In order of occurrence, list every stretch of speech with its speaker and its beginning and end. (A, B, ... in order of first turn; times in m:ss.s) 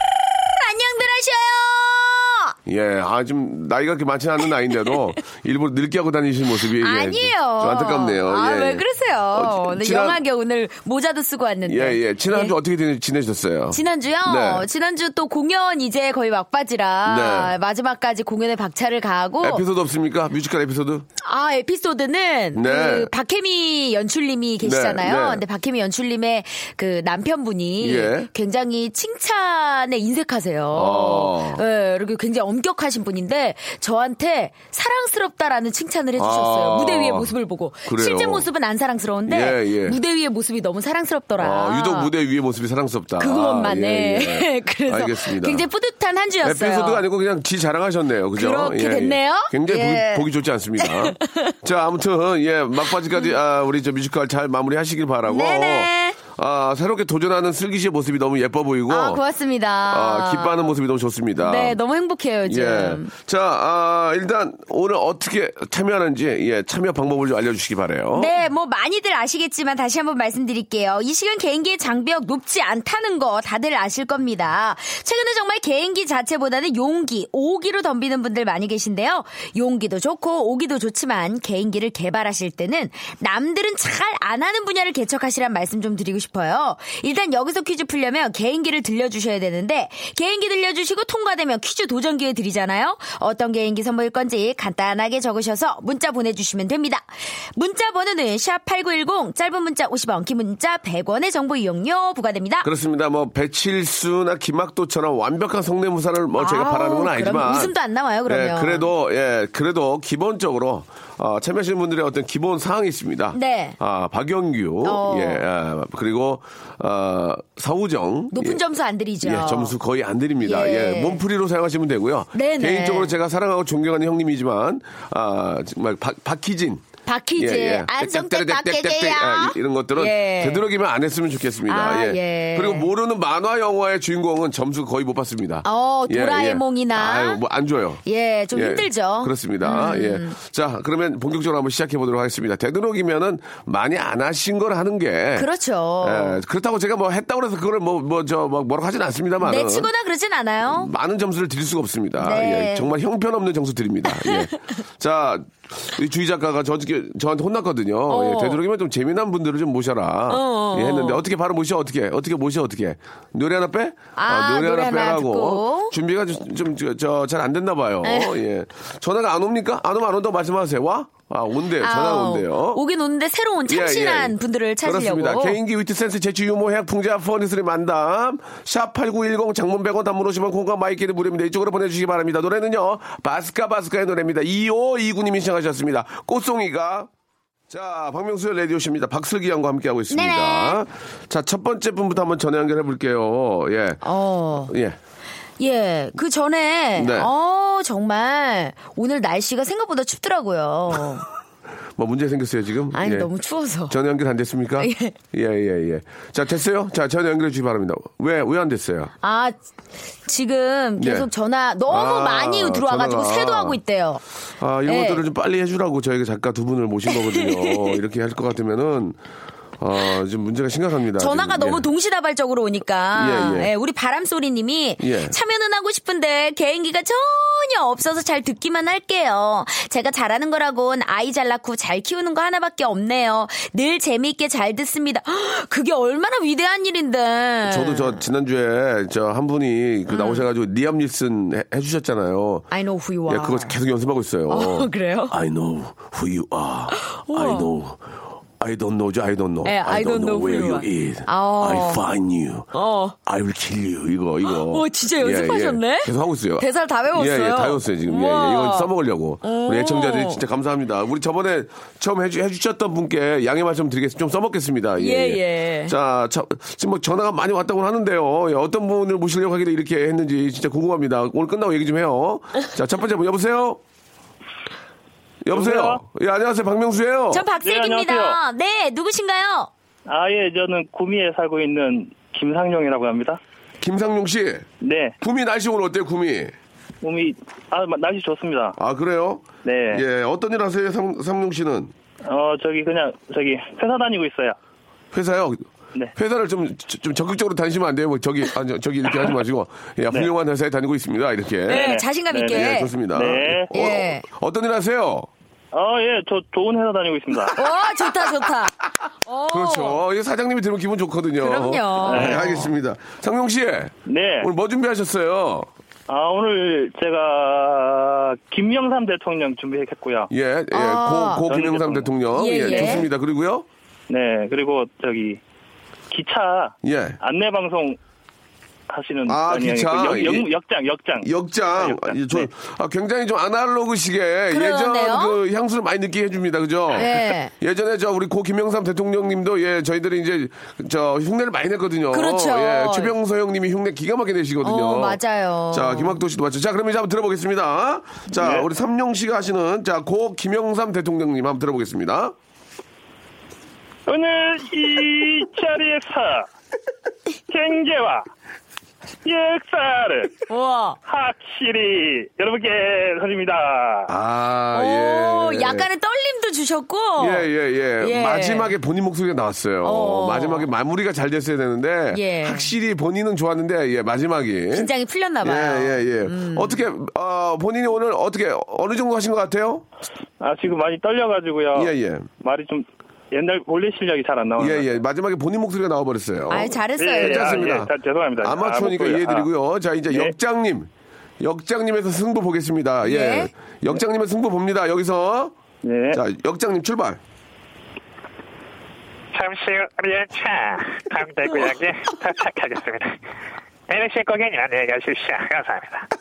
0:00.5-0:02.5 A
0:02.7-0:10.2 B
0:06.8-0:12.6 A
0:11.7-0:14.7 B
0:13.7-0:19.6 A
0:17.0-0:17.5 B
0:19.4-0:21.1 B
0:21.2-0:42.1 A
0:22.5-0:23.1 B
0:24.6-0:25.4 B
0:27.8-0:28.3 B
0:30.7-0:31.6 B
0:36.2-0:37.4 B
0:37.9-0:38.5 B
0:39.3-0:40.0 B
0:41.4-0:45.7 B
0:43.2-0:47.0 A
0:46.4-0:59.2 B
0:48.4-0:51.6 A
0:55.3-0:56.2 A
0:58.9-1:00.7 A
0:59.9-1:01.8 B
1:01.4-1:03.1 A
1:02.5-1:08.3 B
1:08.2-1:42.7 A
1:42.6-1:47.7 B
1:46.4-1:48.9 A
1:48.3-1:58.6 B
1:53.3-1:53.8 A
1:54.8-1:55.4 A
1:58.3-1:59.7 A
1:59.2-2:06.9 B
2:00.4-2:01.2 A
2:02.3-2:03.2 A
2:07.1-2:10.6 A
2:07.4-2:25.5 B
2:11.7-2:12.9 A
2:15.6-2:17.4 A
2:18.1-2:20.4 A
2:25.4-2:26.4 A
2:26.0-2:29.9 B
2:29.4-2:30.9 A
2:30.7-2:52.8 B
2:32.2-2:32.9 A
2:34.2-2:34.6 A
2:38.1-2:38.6 A
2:40.3-2:41.2 A
2:44.2-2:46.0 A
2:48.0-2:48.4 A
2:51.8-2:55.6 A
2:53.7-3:07.1 B
3:07.7-3:14.0 B
3:10.1-3:10.8 A
3:14.0-3:14.7 A
3:14.7-3:15.0 B
3:15.6-3:21.3 A
3:17.0-3:17.3 B
3:22.0-3:23.3 B
3:22.9-3:24.0 A
3:23.9-3:29.1 B
3:24.8-3:25.2 A
3:29.2-3:29.6 A
3:30.3-3:34.2 A
3:31.0-3:31.3 B
3:31.9-3:33.8 B
3:34.6-3:39.2 B
3:34.8-3:35.2 A
3:37.1-3:38.0 A
3:39.8-3:41.9 B
3:41.2-3:58.2 A
3:43.2-3:43.7 B
3:45.0-3:45.4 B
3:57.6-4:02.7 B
4:00.1-4:00.5 A
4:02.7-4:03.8 A
4:03.3-4:12.7 B
4:04.5-4:05.4 A
4:07.0-4:07.7 A
4:09.6-4:12.0 A
4:12.7-4:13.2 A
4:13.3-4:33.8 B
4:14.4-4:18.9 A
4:19.4-4:20.4 A
4:25.0-4:25.9 A
4:35.4-4:37.4 B
4:35.5-4:36.0 C
4:37.3-4:39.7 A
4:37.6-4:38.4 C
4:40.1-4:43.4 C
4:43.8-4:44.7 B
4:44.8-4:45.2 C
4:45.2-4:46.5 B
4:47.0-4:48.8 C
4:48.8-4:51.9 B
4:49.6-4:50.0 C
4:52.2-4:54.6 C
4:55.1-5:02.0 B
5:01.7-5:02.9 A
5:01.7-5:03.7 C
5:02.5-5:05.3 B
5:03.7-5:04.2 A
5:05.7-5:07.6 C
5:07.6-5:10.0 A
5:09.5-5:15.7 B
5:11.4-5:12.7 A
5:12.1-5:12.4 C
5:14.1-5:14.5 C
5:16.1-5:20.3 C
5:20.3-5:23.7 B
5:20.7-5:21.5 A
5:21.5-5:22.1 C
5:22.3-5:23.0 A
5:22.6-5:23.0 C
5:24.1-5:25.4 C
5:26.1-5:28.0 C
5:26.8-5:27.2 B
5:28.9-5:32.5 C
5:29.3-5:30.5 B
5:31.2-5:45.2 B
5:34.5-5:35.4 A
5:36.9-5:37.5 A
5:42.1-5:43.1 A
5:44.6-5:46.2 A
5:45.7-5:52.3 B
5:48.4-5:48.7 C
5:54.1-5:56.5 C
5:57.5-5:58.3 C
5:59.2-6:00.3 C
6:00.5-6:01.0 A
6:01.1-6:04.1 C
6:04.1-6:05.9 B
6:04.7-6:07.5 A
6:07.2-6:14.9 B
6:08.0-6:08.7 A
6:09.8-6:10.7 A
6:12.1-6:12.7 A
6:14.7-6:16.8 A
6:15.4-6:19.8 B
6:20.4-6:25.0 C
6:21.8-6:22.3 B
6:24.6-6:35.5 B
6:26.5-6:27.8 A
6:27.0-6:29.5 C
6:33.0-6:33.5 A
6:35.8-6:36.2 C
6:36.1-6:37.2 B
6:39.3-6:43.2 D
6:43.9-6:46.1 D